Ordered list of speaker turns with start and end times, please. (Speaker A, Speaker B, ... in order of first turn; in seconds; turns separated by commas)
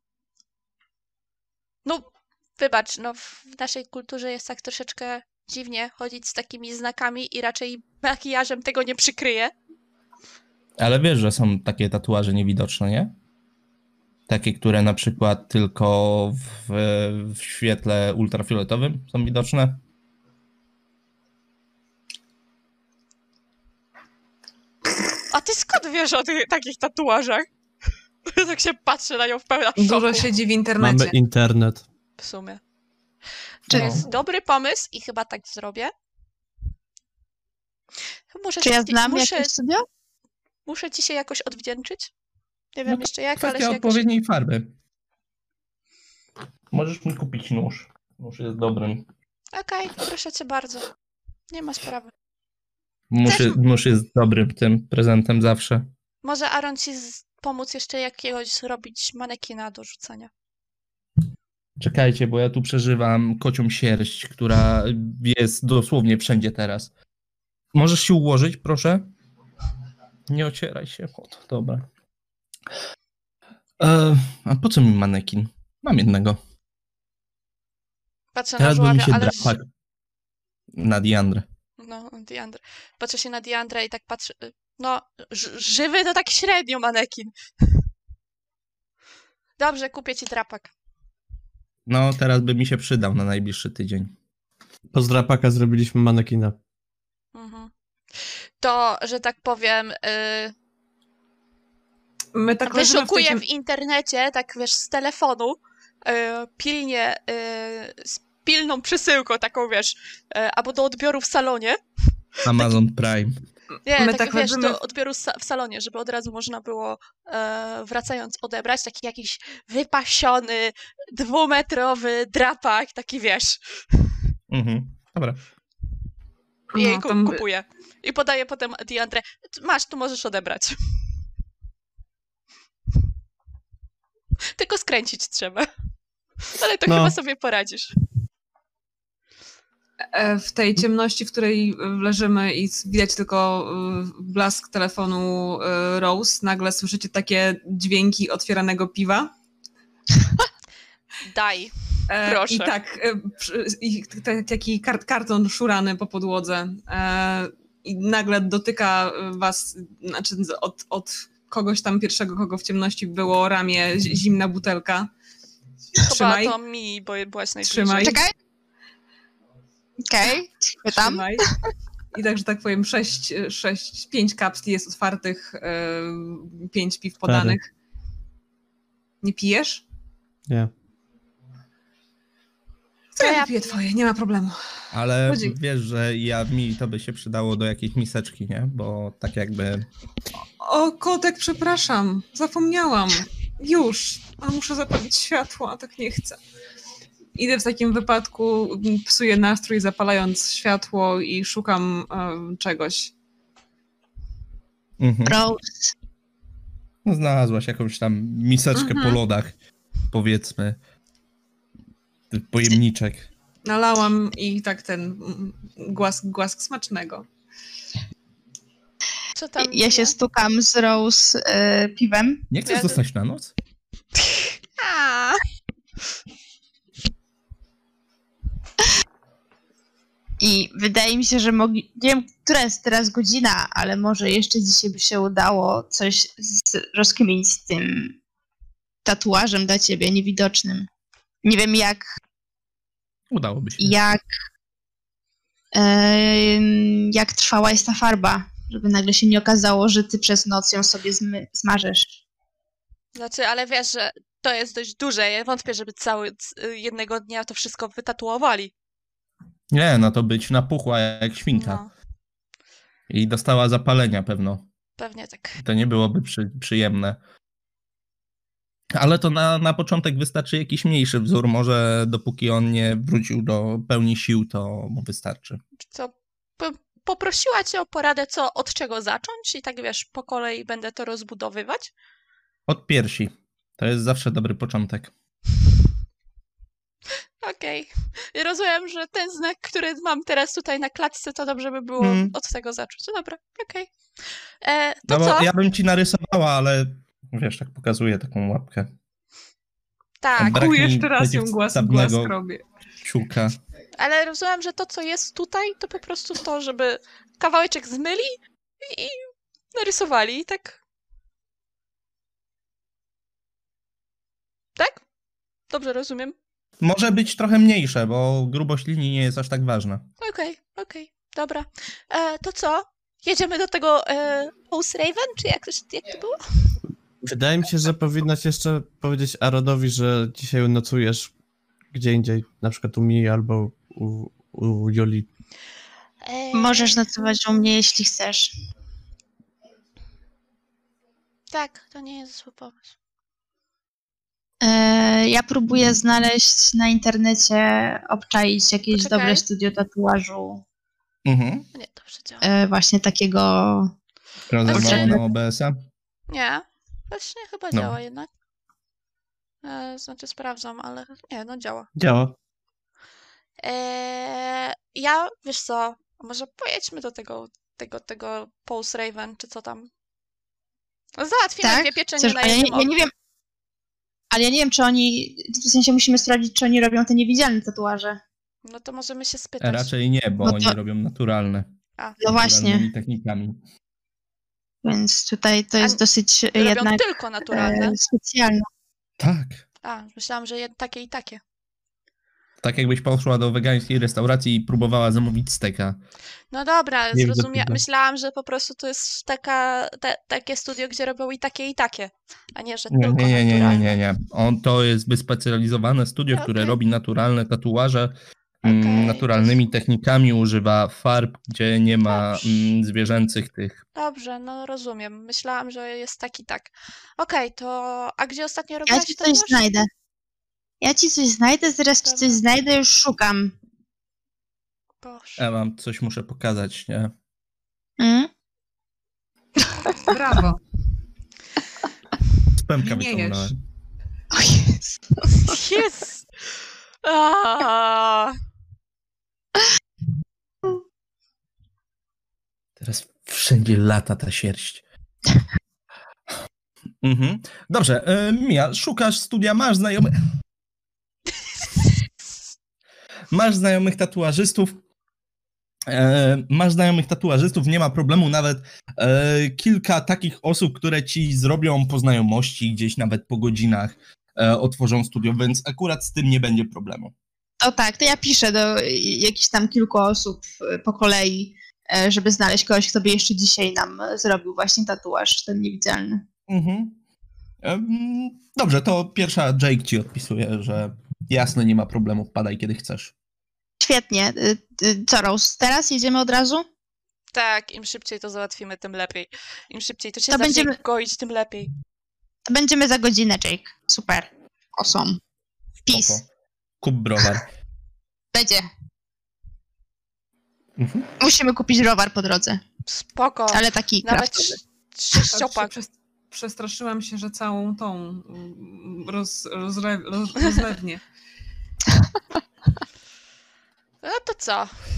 Speaker A: 2.6-9.5, Speaker B: 10.8-13.1, Speaker B: 14.3-19.8, Speaker A: 25.3-27.4, Speaker A: 28.3-30.3, Speaker C: 29.8-31.1, Speaker D: 30.8-31.8, Speaker A: 32.2-32.6, Speaker A: 33.7-35.9, Speaker B: 33.7-34.0, Speaker A: 38.3-39.5, Speaker E: 38.6-39.8, Speaker A: 40.6-42.1, Speaker A: 42.7-44.1, Speaker B: 42.9-44.7, Speaker B: 46.7-49.0, Speaker A: 49.5-50.9, Speaker A: 51.5-52.1, Speaker B: 53.1-55.9, Speaker A: 53.2-53.6, Speaker A: 56.2-60.3, Speaker B: 61.8-66.9, Speaker B: 67.7-69.1, Speaker B: 70.3-71.9, Speaker B: 73.8-76.4, Speaker A: 78.3-79.5, Speaker B: 78.6-79.7, Speaker B: 80.8-81.4, Speaker A: 81.8-87.3, Speaker A: 89.6-90.7, Speaker B: 91.9-94.1, Speaker D: 94.9-96.5, Speaker A: 97.3-97.7, Speaker A: 98.2-100.5, Speaker C: 102.3-103.4, Speaker A: 102.6-111.8, Speaker A: 112.4-112.7, Speaker B: 112.5-113.3, Speaker A: 113.8-124.1, Speaker C: 113.9-114.8, Speaker B: 124.5-125.4, Speaker C: 126.7-127.4, Speaker A: 126.7-130.8, Speaker A: 134.5-135.7, Speaker A: 136.5-137.9, Speaker D: 136.9-137.1, Speaker C: 140.1-149.3, Speaker A: 151.2-152.7, Speaker C: 152.1-165.1, Speaker A: 166.0-168.2, Speaker C: 166.1-166.6, Speaker C: 167.6-168.2, Speaker E: 168.0-168.3, Speaker E: 170.1-171.6, Speaker C: 170.8-171.5, Speaker C: 172.1-177.7, Speaker D: 177.2-177.6, Speaker C: 179.2-179.8, Speaker A: 183.2-183.5, Speaker C: 183.2-184.6, Speaker B: 184.9-189.9, Speaker C: 185.2-185.6, Speaker C: 190.4-196.4, Speaker C: 197.3-203.1, Speaker B: 205.0-205.4, Speaker E: 205.2-205.9, Speaker B: 207.0-209.5, Speaker C: 208.7-209.2, Speaker B: 210.1-210.8, Speaker B: 212.3-213.3, Speaker C: 213.6-217.3, Speaker A: 219.3-220.2, Speaker E: 219.6-222.4, Speaker B: 222.5-223.5, Speaker A: 222.7-223.0, Speaker A: 224.2-225.4, Speaker E: 230.4-238.1, Speaker E: 239.0-240.9, Speaker E: 241.4-242.0, Speaker B: 243.3-244.0, Speaker E: 243.8-244.2, Speaker E: 245.7-252.2, Speaker A: 253.1-258.7, Speaker B: 259.7-261.8, Speaker A: 261.5-261.9, Speaker B: 263.1-264.6, Speaker A: 265.0-265.6, Speaker B: 265.6-267.2, Speaker B: 268.9-275.6, Speaker A: 275.8-281.9, Speaker B: 282.7-285.1, Speaker A: 287.4-293.9, Speaker B: 292.0-292.3, Speaker A: 294.6-295.5, Speaker B: 295.1-298.9, Speaker A: 300.2-300.6, Speaker B: 300.4-302.3, Speaker C: 300.4-302.6, Speaker B: 303.0-303.6, Speaker A: 303.9-310.8, Speaker A: 314.8-315.0, Speaker A: 315.7-316.3, Speaker B: 316.8-320.1, Speaker A: 320.2-326.8, Speaker D: 327.2-331.3, Speaker D: 331.9-335.3, Speaker A: 336.2-337.3, Speaker E: 336.5-338.5, Speaker A: 341.5-342.9, Speaker E: 344.6-350.6, Speaker A: 348.9-349.4, Speaker B: 351.2-351.6, Speaker A: 351.7-352.4, Speaker E: 352.4-353.9, Speaker B: 354.5-355.8, Speaker A: 354.7-355.2, Speaker D: 354.7-355.2, Speaker A: 356.3-358.3, Speaker A: 359.6-361.9, Speaker D: 361.9-362.3, Speaker A: 363.6-369.9, Speaker A: 371.2-372.9, Speaker E: 371.6-373.1, Speaker E: 374.3-378.2, Speaker A: 378.6-379.9, Speaker B: 379.6-381.7, Speaker E: 380.4-380.7, Speaker E: 382.2-382.9, Speaker B: 382.2-383.6, Speaker E: 384.8-388.7, Speaker A: 386.5-387.9, Speaker B: 389.2-389.6, Speaker A: 389.8-391.4, Speaker B: 392.6-396.0, Speaker A: 396.5-403.9, Speaker B: 397.1-397.7, Speaker B: 402.9-413.8, Speaker A: 406.3-406.8, Speaker A: 408.6-409.5, Speaker A: 412.1-412.5, Speaker A: 413.9-419.7, Speaker E: 418.9-419.9, Speaker E: 420.8-423.5, Speaker A: 422.0-422.4, Speaker A: 425.0-425.4, Speaker B: 425.4-427.1, Speaker E: 428.0-428.3, Speaker C: 430.0-430.6, Speaker B: 432.6-433.5, Speaker C: 432.8-433.5, Speaker E: 434.3-435.5, Speaker A: 435.4-436.2, Speaker A: 437.0-438.3, Speaker B: 442.8-444.8, Speaker B: 447.0-450.2, Speaker B: 453.3-454.8, Speaker B: 455.9-467.1, Speaker E: 467.6-476.2, Speaker B: 476.5-477.0, Speaker B: 477.6-483.1, Speaker E: 483.8-486.6, Speaker A: 487.3-491.7, Speaker E: 490.3-490.7, Speaker E: 492.5-495.2, Speaker E: 495.9-496.2, Speaker B: 495.9-496.2, Speaker B: 496.8-497.5, Speaker E: 498.3-498.7, Speaker B: 500.8-501.1, Speaker E: 501.2-502.6, Speaker A: 502.9-505.7, Speaker E: 503.5-504.6, Speaker C: 505.3-511.0, Speaker E: 511.9-512.1, Speaker A: 514.0-514.8